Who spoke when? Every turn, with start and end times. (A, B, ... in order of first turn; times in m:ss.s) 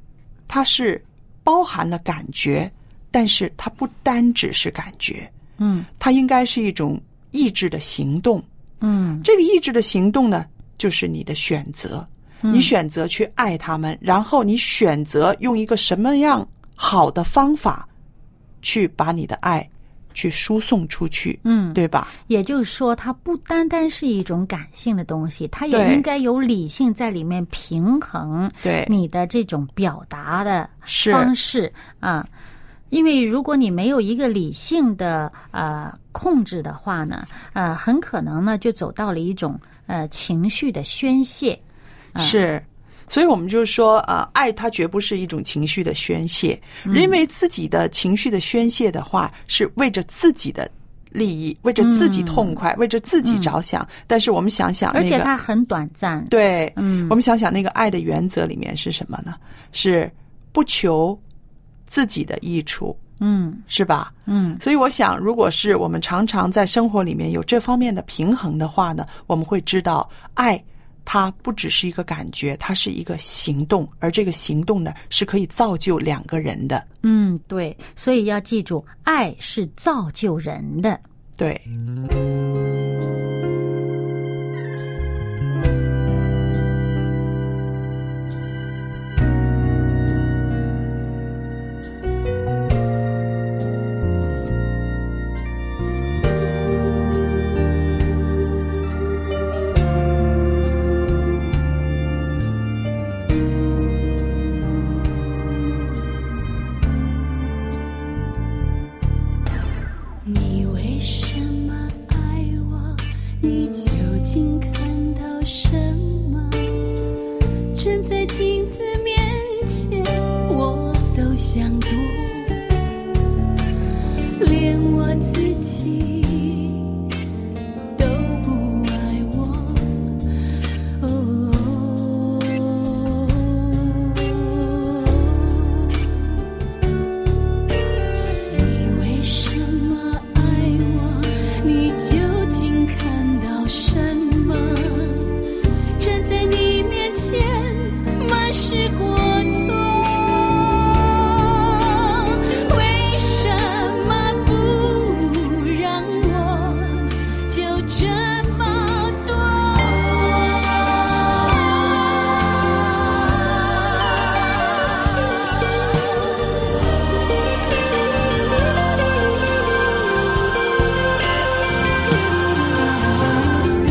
0:00.5-0:05.3 A
0:05.6-0:05.9 B
0:06.0-0:08.4 A
0:08.8-0:09.3 B
0:09.2-0:17.9 A
0:12.4-0:12.7 B
0:18.6-0:22.1 A
0:21.4-0:32.3 B
0:25.7-0:26.0 A
0:28.6-0:28.9 A
0:30.9-0:31.3 A
0:32.9-0:41.6 B
0:42.2-0:55.3 A
0:46.8-0:47.2 B
0:51.8-0:52.6 B
0:53.2-0:53.5 B
0:54.9-0:57.2 B
0:56.3-1:01.2 A
1:01.9-1:03.0 A
1:03.2-1:03.6 B
1:03.7-1:16.8 A
1:04.3-1:04.6 B
1:17.0-1:21.0 B
1:21.4-1:21.7 A
1:50.2-1:56.9 C
1:57.7-2:02.9 C
2:04.4-2:07.0 C
2:08.0-2:10.2 C
2:11.0-2:16.4 C
2:18.5-2:25.4 C
2:26.0-2:46.6 C
2:53.1-2:53.4 C